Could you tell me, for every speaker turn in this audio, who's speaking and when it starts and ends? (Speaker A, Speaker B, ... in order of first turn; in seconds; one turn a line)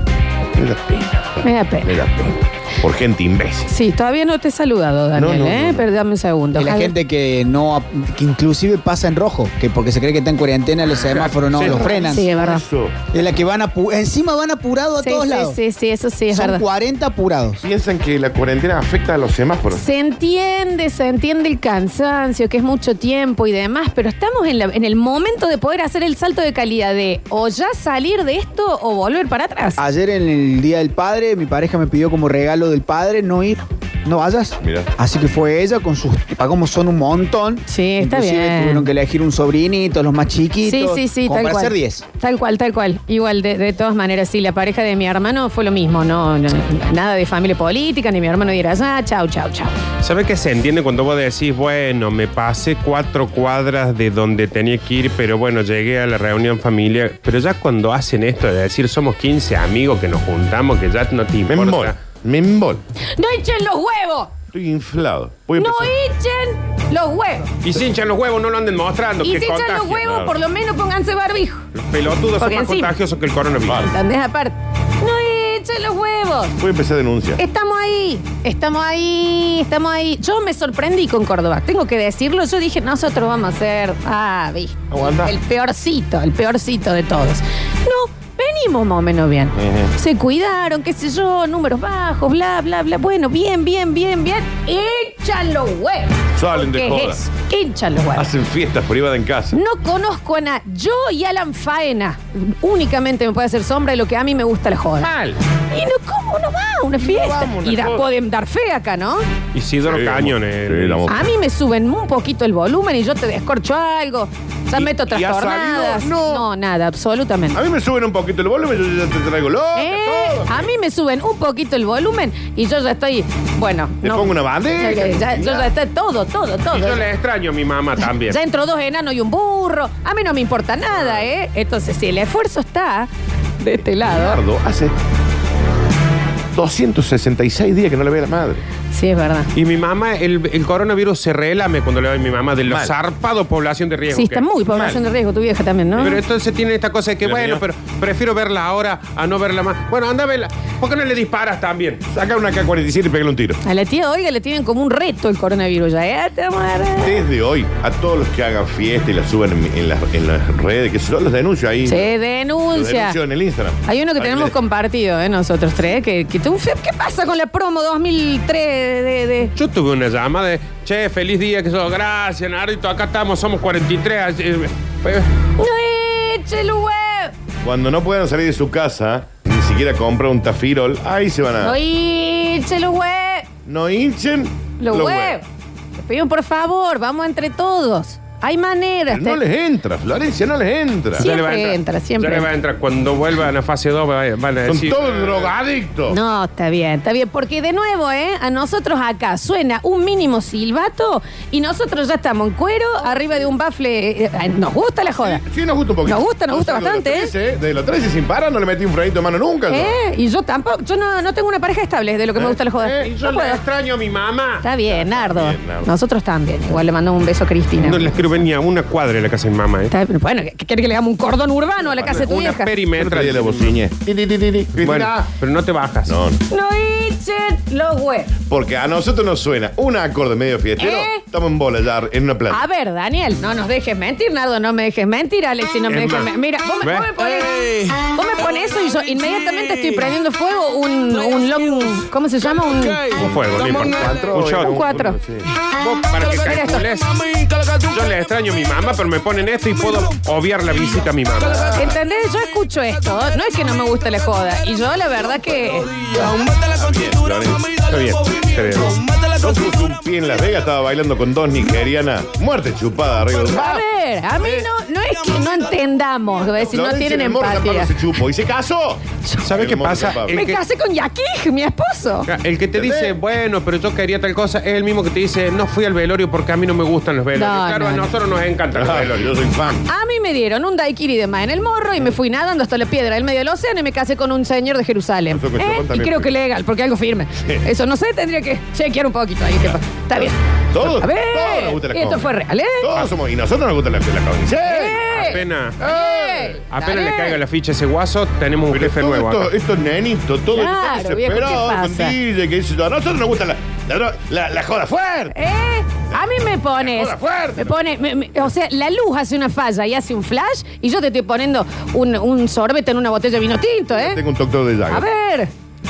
Speaker A: 0.5-3.7
Speaker B: 1.4-2.1
Speaker B: 3.7-6.9
Speaker A: 5.1-5.8
Speaker C: 6.5-12.3
Speaker A: 11.1-13.0
Speaker B: 11.7-12.6
Speaker C: 13.1-15.6
Speaker B: 15.0-16.6
Speaker C: 16.3-17.6
Speaker A: 17.6-19.8
Speaker B: 19.7-29.8
Speaker C: 29.8-42.0
Speaker A: 34.6-34.9
Speaker B: 37.6-38.9
Speaker B: 40.6-49.7
Speaker D: 50.0-62.0
Speaker A: 61.5-62.8
Speaker B: 63.1-64.3
Speaker A: 64.5-65.9
Speaker B: 65.5-67.5
Speaker D: 67.6-70.0
Speaker B: 69.2-71.7
Speaker A: 70.0-70.3
Speaker D: 71.7-73.9
Speaker B: 72.4-72.9
Speaker A: 73.6-73.9
Speaker B: 73.8-76.6
Speaker A: 76.6-77.4
Speaker B: 77.4-98.3
Speaker A: 84.9-85.3
Speaker A: 89.5-89.9
Speaker A: 96.3-97.2
Speaker A: 98.1-99.6
Speaker B: 99.5-105.1
Speaker A: 105.0-105.4
Speaker B: 105.7-109.2
Speaker A: 107.0-108.1
Speaker D: 109.5-111.1
Speaker A: 109.8-111.2
Speaker B: 111.1-117.6
Speaker A: 114.7-116.5
Speaker A: 117.5-120.7
Speaker B: 119.7-127.0
Speaker A: 124.0-125.7
Speaker D: 126.7-128.4
Speaker B: 128.2-134.4
Speaker A: 133.9-134.9
Speaker A: 136.5-138.6
Speaker B: 138.9-139.5
Speaker D: 139.5-144.4
Speaker A: 142.6-142.9
Speaker B: 144.1-146.2
Speaker A: 144.7-145.0
Speaker D: 146.0-152.0
Speaker A: 147.2-147.6
Speaker A: 152.1-153.6
Speaker B: 153.6-157.2
Speaker A: 157.0-162.1
Speaker B: 161.8-163.2
Speaker A: 162.7-164.5
Speaker B: 163.8-169.5
Speaker D: 169.5-175.3
Speaker B: 175.6-177.3
Speaker A: 177.6-181.8
Speaker B: 181.6-183.5
Speaker A: 183.7-185.4
Speaker B: 184.8-185.4
Speaker B: 185.9-189.4
Speaker A: 189.1-191.3
Speaker B: 191.2-192.5
Speaker D: 191.2-195.5
Speaker A: 194.6-196.2
Speaker B: 196.1-205.4
Speaker A: 205.1-210.0
Speaker B: 206.1-207.3
Speaker B: 209.7-213.6
Speaker A: 212.3-213.1
Speaker D: 213.0-214.6
Speaker B: 214.6-218.2
Speaker A: 214.8-215.9
Speaker D: 217.8-219.9
Speaker B: 219.9-222.7
Speaker D: 221.9-223.8
Speaker A: 222.9-225.3
Speaker D: 224.8-226.1
Speaker A: 226.1-226.4
Speaker B: 226.5-228.3
Speaker A: 228.5-232.6
Speaker B: 230.8-231.2
Speaker B: 232.5-243.1
Speaker D: 235.9-237.2
Speaker D: 243.1-244.8
Speaker A: 243.4-245.5
Speaker B: 244.4-245.2
Speaker D: 245.7-251.7
Speaker B: 246.4-246.9
Speaker A: 251.5-252.0
Speaker B: 251.7-255.9
Speaker A: 256.2-257.8
Speaker D: 257.8-259.0
Speaker A: 259.2-263.8
Speaker B: 263.5-268.0
Speaker A: 264.4-264.7
Speaker A: 266.7-270.4
Speaker D: 269.4-270.6
Speaker B: 270.2-272.3
Speaker D: 272.2-279.3
Speaker A: 272.7-273.2
Speaker B: 277.4-278.1
Speaker A: 278.7-279.9
Speaker B: 279.9-292.9
Speaker A: 285.3-286.3
Speaker A: 287.4-287.6
Speaker A: 289.6-296.6
Speaker B: 294.6-297.4
Speaker D: 295.1-295.8
Speaker D: 296.7-299.5
Speaker A: 298.7-305.4
Speaker B: 300.5-302.1
Speaker B: 305.3-314.2
Speaker A: 306.8-307.9
Speaker A: 313.9-315.1
Speaker B: 314.9-315.5